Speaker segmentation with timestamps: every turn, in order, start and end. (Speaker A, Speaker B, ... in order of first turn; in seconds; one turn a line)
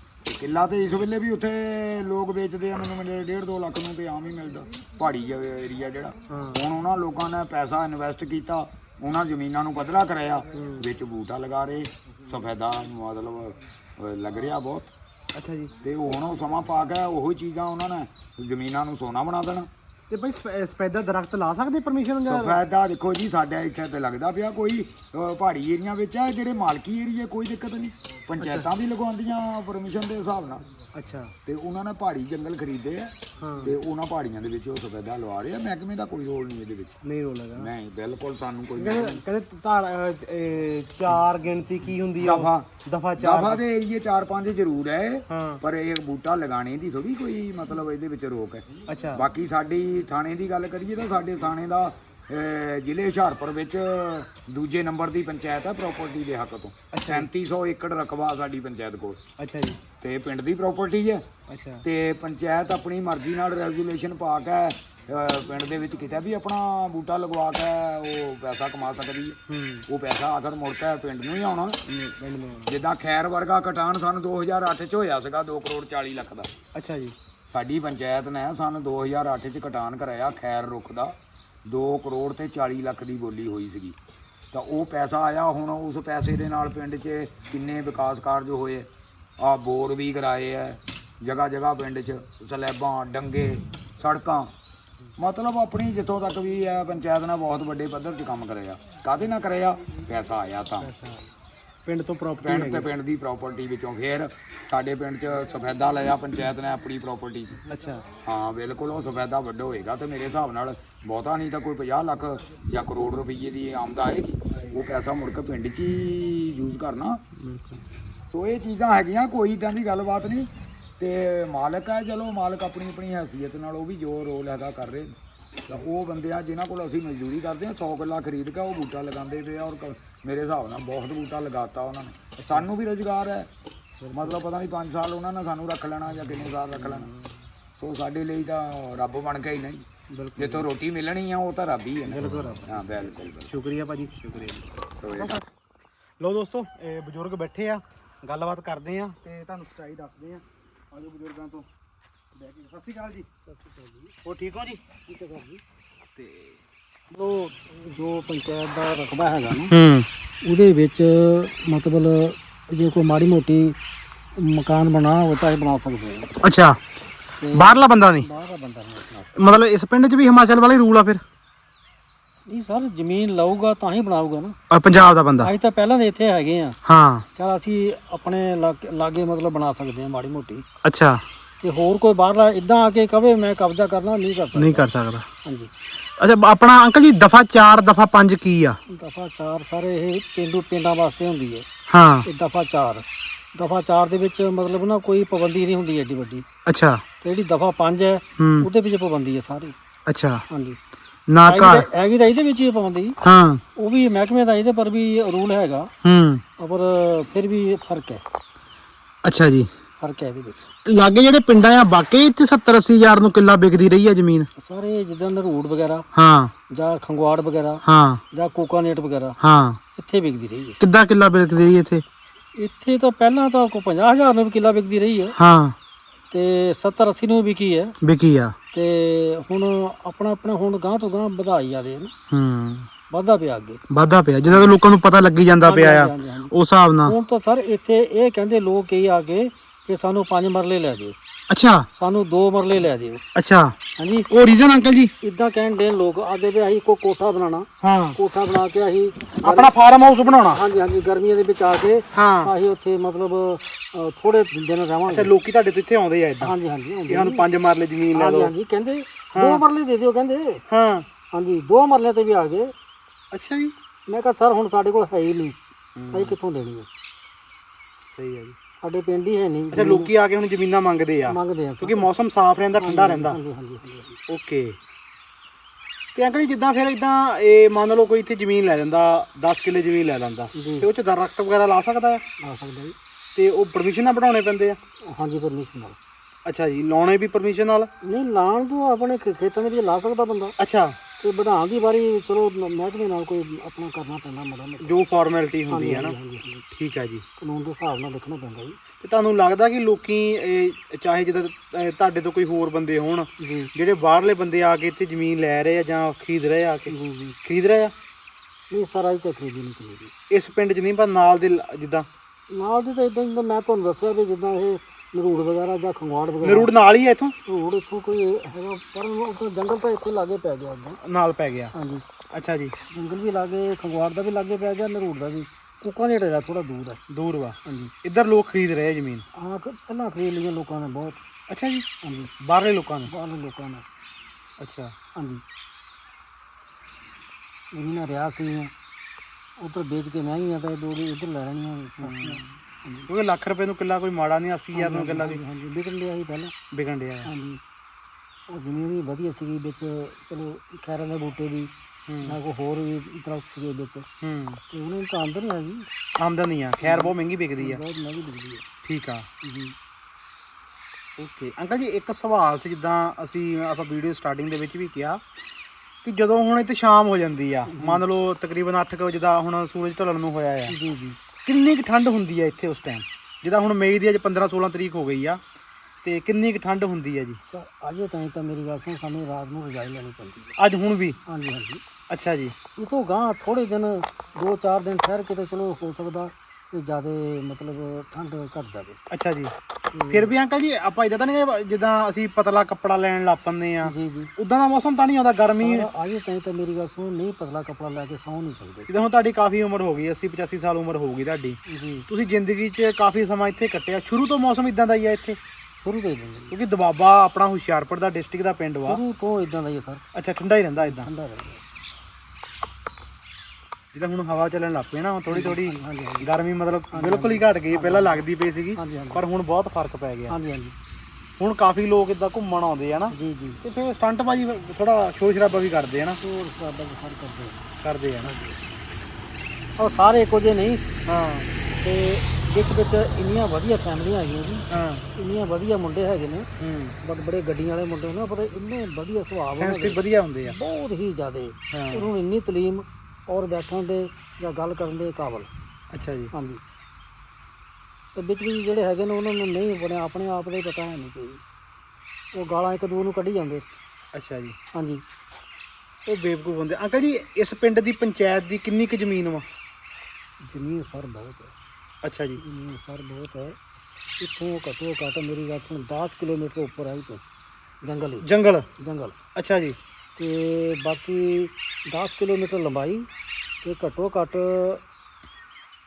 Speaker A: 0.2-14.9
Speaker B: 6.3-6.6
Speaker B: 10.5-10.9
Speaker B: 15.3-16.1
Speaker A: 15.8-19.7
Speaker B: 20.1-22.6
Speaker A: 22.2-30.6
Speaker B: 28.4-28.7
Speaker B: 30.9-31.3
Speaker A: 31.4-37.0
Speaker B: 33.4-33.7
Speaker B: 37.0-37.7
Speaker A: 37.5-39.2
Speaker B: 38.8-43.6
Speaker A: 42.2-59.2
Speaker B: 45.3-45.6
Speaker B: 48.9-49.2
Speaker B: 56.9-57.3
Speaker B: 59.4-59.8
Speaker A: 60.0-61.2
Speaker B: 61.5-61.8
Speaker A: 61.8-71.8
Speaker B: 69.5-69.8
Speaker B: 71.9-72.8
Speaker A: 72.7-76.5
Speaker B: 76.7-77.2
Speaker A: 77.5-84.0
Speaker A: 84.5-94.5
Speaker A: 95.2-100.9
Speaker B: 100.8-101.3
Speaker B: 101.8-102.9
Speaker A: 102.4-107.6
Speaker B: 107.7-108.0
Speaker A: 108.2-117.2
Speaker B: 117.4-117.8
Speaker A: 118.3-125.1
Speaker A: 125.7-133.5
Speaker B: 132.4-132.7
Speaker B: 134.0-134.4
Speaker A: 134.1-137.1
Speaker B: 136.7-137.3
Speaker A: 137.7-139.8
Speaker B: 140.1-140.7
Speaker A: 140.4-143.5
Speaker B: 142.1-142.9
Speaker B: 143.5-145.5
Speaker A: 145.0-145.3
Speaker B: 146.2-151.7
Speaker B: 152.3-153.2
Speaker C: 153.4-154.1
Speaker B: 154.2-154.8
Speaker C: 155.0-155.6
Speaker B: 156.2-156.6
Speaker C: 157.1-159.7
Speaker B: 159.7-160.1
Speaker C: 160.4-163.8
Speaker C: 164.3-166.3
Speaker B: 166.4-166.8
Speaker C: 167.4-169.6
Speaker B: 167.5-168.3
Speaker B: 169.3-171.2
Speaker C: 172.4-174.6
Speaker B: 174.7-175.5
Speaker C: 175.4-176.8
Speaker B: 176.8-177.2
Speaker C: 177.3-180.6
Speaker B: 180.8-181.2
Speaker C: 181.6-184.9
Speaker B: 184.5-185.2
Speaker C: 185.4-185.7
Speaker B: 186.2-188.8
Speaker C: 188.9-191.7
Speaker B: 191.9-192.3
Speaker C: 192.2-196.4
Speaker B: 196.7-197.0
Speaker C: 197.2-199.7
Speaker B: 198.4-198.7
Speaker B: 200.1-200.4
Speaker C: 200.5-200.8
Speaker B: 201.3-201.9
Speaker C: 201.4-203.2
Speaker B: 203.2-203.6
Speaker C: 203.8-205.9
Speaker B: 206.0-206.4
Speaker C: 206.6-208.2
Speaker B: 209.2-209.7
Speaker C: 210.0-210.5
Speaker B: 210.8-214.5
Speaker C: 214.6-216.1
Speaker B: 216.1-216.5
Speaker C: 216.7-219.4
Speaker B: 217.8-218.2
Speaker B: 219.4-219.8
Speaker C: 219.9-220.8
Speaker B: 220.8-222.0
Speaker C: 222.6-225.3
Speaker B: 225.3-225.8
Speaker C: 226.3-227.9
Speaker B: 228.0-228.6
Speaker C: 228.7-232.1
Speaker B: 232.3-232.9
Speaker C: 233.1-233.8
Speaker B: 233.9-237.2
Speaker C: 234.5-234.7
Speaker C: 235.6-241.1
Speaker B: 241.5-241.9
Speaker C: 242.0-243.2
Speaker B: 243.3-243.7
Speaker C: 244.0-244.3
Speaker B: 244.3-245.1
Speaker C: 245.2-249.7
Speaker B: 247.8-248.2
Speaker B: 249.4-250.6
Speaker C: 250.3-255.3
Speaker B: 252.1-252.5
Speaker B: 255.1-256.5
Speaker C: 256.4-257.4
Speaker B: 257.1-258.5
Speaker C: 258.1-260.6
Speaker B: 259.3-259.6
Speaker B: 260.7-261.1
Speaker C: 261.3-262.7
Speaker B: 263.3-263.7
Speaker C: 264.1-265.6
Speaker B: 265.9-266.4
Speaker C: 266.1-266.9
Speaker B: 268.1-268.6
Speaker C: 268.8-270.1
Speaker B: 269.7-273.4
Speaker C: 271.3-272.1
Speaker C: 272.8-274.2
Speaker B: 274.3-274.8
Speaker B: 276.1-282.2
Speaker C: 280.5-280.9
Speaker C: 282.4-282.9
Speaker B: 283.3-284.8
Speaker C: 285.0-286.0
Speaker B: 286.4-287.9
Speaker C: 288.0-290.5
Speaker B: 290.6-291.0
Speaker C: 291.2-294.9
Speaker B: 294.8-296.1
Speaker C: 295.7-296.6
Speaker B: 296.7-297.2
Speaker C: 297.4-298.8
Speaker B: 299.0-307.9
Speaker C: 303.4-303.7
Speaker C: 306.9-307.4
Speaker C: 308.7-310.1
Speaker B: 310.3-312.1
Speaker C: 312.5-316.7
Speaker B: 316.4-317.3
Speaker C: 317.4-321.0
Speaker B: 321.0-321.7
Speaker C: 321.7-322.0
Speaker B: 322.3-322.7
Speaker C: 322.9-327.0
Speaker B: 327.1-329.2
Speaker C: 327.6-327.9
Speaker C: 329.3-331.2
Speaker B: 331.5-331.9
Speaker C: 332.0-332.3
Speaker B: 332.4-333.1
Speaker C: 333.1-333.8
Speaker B: 334.6-334.9
Speaker C: 335.1-335.4
Speaker C: 337.7-338.7
Speaker C: 339.6-343.1
Speaker B: 342.0-342.6
Speaker B: 343.1-345.4
Speaker C: 344.7-346.5
Speaker B: 346.7-347.3
Speaker C: 347.2-347.6
Speaker C: 348.5-354.1
Speaker B: 352.1-352.4
Speaker B: 354.2-354.6
Speaker C: 354.7-355.9
Speaker B: 356.2-357.8
Speaker C: 356.8-358.6
Speaker B: 358.8-359.3
Speaker C: 359.4-359.7
Speaker B: 361.2-365.2
Speaker B: 366.0-370.7
Speaker C: 367.7-368.0
Speaker C: 370.7-371.2
Speaker B: 371.4-375.4
Speaker B: 376.0-377.4
Speaker C: 377.4-380.5
Speaker B: 380.6-381.2
Speaker C: 381.2-381.8
Speaker B: 382.1-382.5
Speaker C: 382.8-389.0
Speaker B: 389.1-389.5
Speaker C: 389.9-390.3
Speaker B: 390.1-395.9
Speaker C: 393.8-394.3
Speaker C: 395.6-398.9
Speaker B: 398.9-405.4
Speaker C: 401.6-402.1
Speaker C: 405.8-406.6
Speaker B: 406.5-409.0
Speaker C: 408.9-410.0
Speaker B: 410.1-411.1
Speaker C: 410.8-411.6
Speaker B: 413.9-420.4
Speaker C: 415.3-416.3
Speaker C: 416.9-419.2
Speaker C: 420.3-420.7
Speaker B: 421.4-426.2
Speaker C: 423.1-423.6
Speaker C: 426.2-427.7
Speaker B: 427.8-428.3
Speaker C: 428.2-428.6
Speaker C: 429.8-430.8
Speaker B: 431.1-431.5
Speaker C: 431.7-436.5
Speaker B: 434.7-435.0
Speaker B: 436.6-436.9
Speaker C: 437.0-445.5
Speaker B: 439.6-440.5
Speaker B: 441.7-442.1
Speaker B: 445.9-446.3
Speaker C: 446.3-446.6
Speaker C: 448.1-451.4
Speaker C: 452.3-453.6
Speaker B: 454.1-454.6
Speaker C: 454.7-455.0
Speaker B: 456.1-459.4
Speaker C: 460.4-461.5
Speaker B: 462.0-462.4
Speaker C: 462.4-463.6
Speaker C: 464.2-467.2
Speaker C: 467.8-469.1
Speaker B: 468.2-468.7
Speaker B: 469.4-469.8
Speaker C: 470.1-473.1
Speaker C: 473.6-474.8